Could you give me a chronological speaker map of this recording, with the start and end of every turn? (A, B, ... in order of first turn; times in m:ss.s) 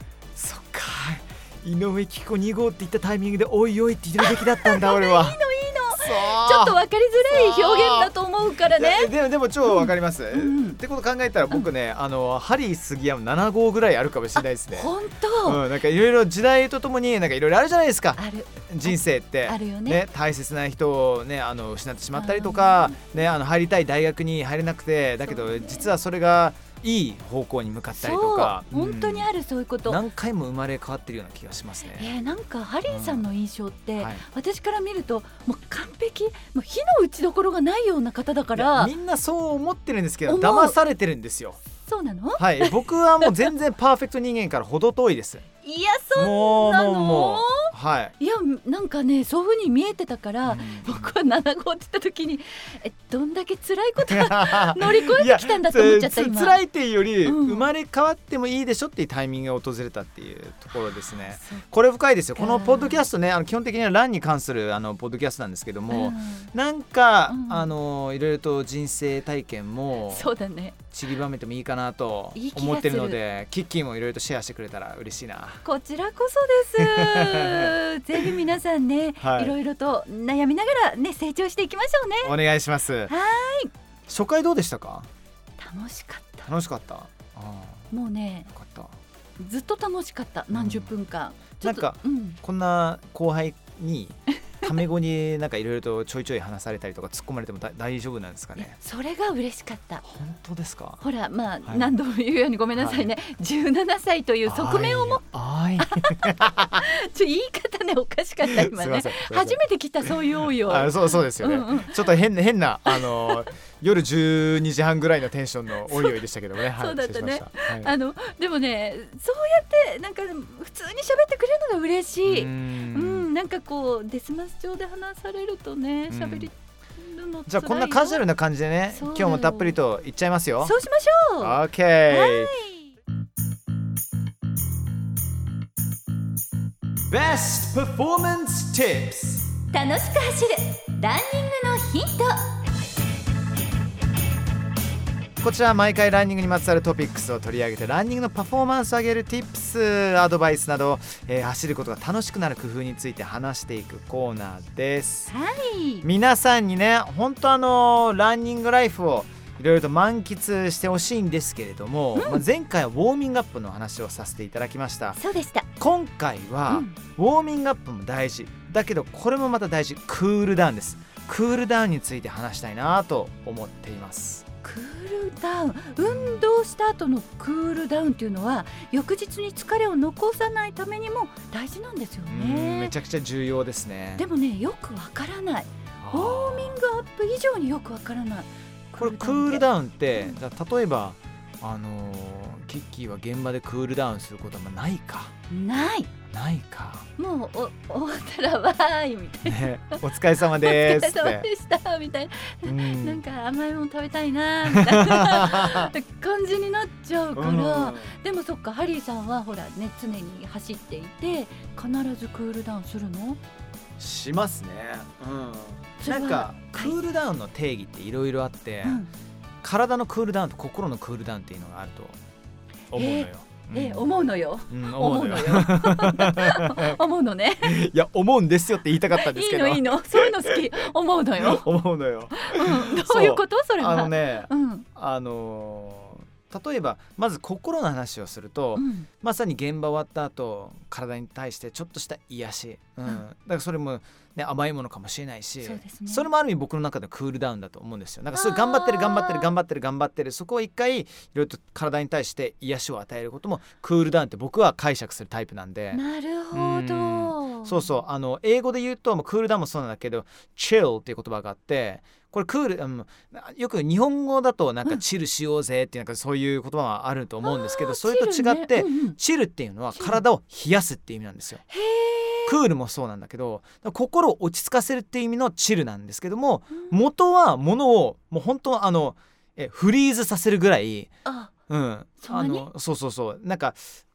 0:00.4-0:05.4 A
0:04.2-0:09.1 B
0:05.9-0:08.1 A
0:08.7-0:29.3 A
0:09.7-0:10.8 B
0:14.4-0:15.6 B
0:18.2-0:20.0 B
0:22.1-0:23.0 B
0:25.2-0:25.9 B
0:27.9-0:30.0 B
0:29.9-0:32.2 A
0:32.0-0:38.9 B
0:32.9-0:33.3 A
0:34.0-0:34.2 A
0:38.6-0:41.6 A
0:40.3-0:40.8 B
0:41.8-0:43.5 B
0:42.4-0:45.5 A
0:45.6-0:56.6 B
0:46.2-0:48.2 A
0:50.4-0:51.1 A
0:54.1-1:10.3 A
0:57.2-0:57.7 B
1:01.1-1:01.6 B
1:02.4-1:03.1 B
1:05.9-1:06.5 B
1:07.3-1:07.7 B
1:10.1-1:10.8 B
1:10.9-1:15.6 A
1:12.4-1:13.2 B
1:15.6-1:22.3 B
1:16.8-1:18.3 A
1:19.2-1:19.6 A
1:22.2-1:23.1 A
1:23.1-1:23.7 B
1:24.1-1:25.1 A
1:25.6-1:26.5 B
1:26.5-1:27.9 A
1:27.9-1:28.5 B
1:28.5-1:28.9 A
1:29.4-1:32.4 B
1:30.5-1:31.0 A
1:31.6-1:38.8 A
1:38.6-1:40.0 B
1:40.0-1:41.0 A
1:41.0-1:45.2 B
1:41.6-1:41.9 A
1:42.8-1:43.1 A
1:44.5-1:46.8 A
1:45.8-1:52.1 B
1:48.5-1:57.9 A
1:52.9-1:53.4 B
1:55.9-2:08.2 B
2:02.2-2:03.3 A
2:06.1-2:06.5 A
2:07.5-2:10.8 A
2:08.9-2:09.8 B
2:10.6-2:12.9 B
2:11.4-2:12.6 A
2:17.1-2:19.5 A
2:19.7-2:22.5 B
2:25.4-2:35.3 A
2:35.3-2:36.0 B
2:36.0-2:45.2 A
2:42.2-2:42.4 B
2:45.2-2:45.7 B
2:45.8-2:54.4 A
2:46.7-2:47.0 B
2:54.6-3:02.9 B
2:56.0-2:56.5 A
3:02.3-3:04.2 A
3:04.2-3:10.4 B
3:06.0-3:06.8 A
3:09.0-3:15.3 A
3:15.5-3:16.1 B
3:16.3-3:17.1 A
3:17.2-3:19.7 B
3:19.4-3:21.5 A
3:20.6-3:33.4 B
3:22.6-3:23.2 A
3:24.7-3:25.9 A
3:27.4-3:28.2 A
3:34.0-3:39.0 A
3:36.0-3:37.0 B
3:38.8-3:39.1 B
3:39.6-3:42.2 A
3:42.9-3:47.0 A
3:42.9-3:47.8 B
3:47.6-3:50.7 A
3:49.1-3:51.7 B
3:51.4-4:16.0 A
3:52.4-3:54.9 B
3:58.8-3:59.1 B
4:05.6-4:06.3 B
4:08.3-4:09.5 B
4:15.9-4:17.8 B
4:16.5-4:31.6 A
4:27.4-4:29.2 B
4:30.0-4:30.2 B
4:31.7-4:32.6 B
4:32.5-4:41.1 A
4:41.2-4:41.5 B
4:41.7-4:44.0 A
4:42.2-4:42.7 B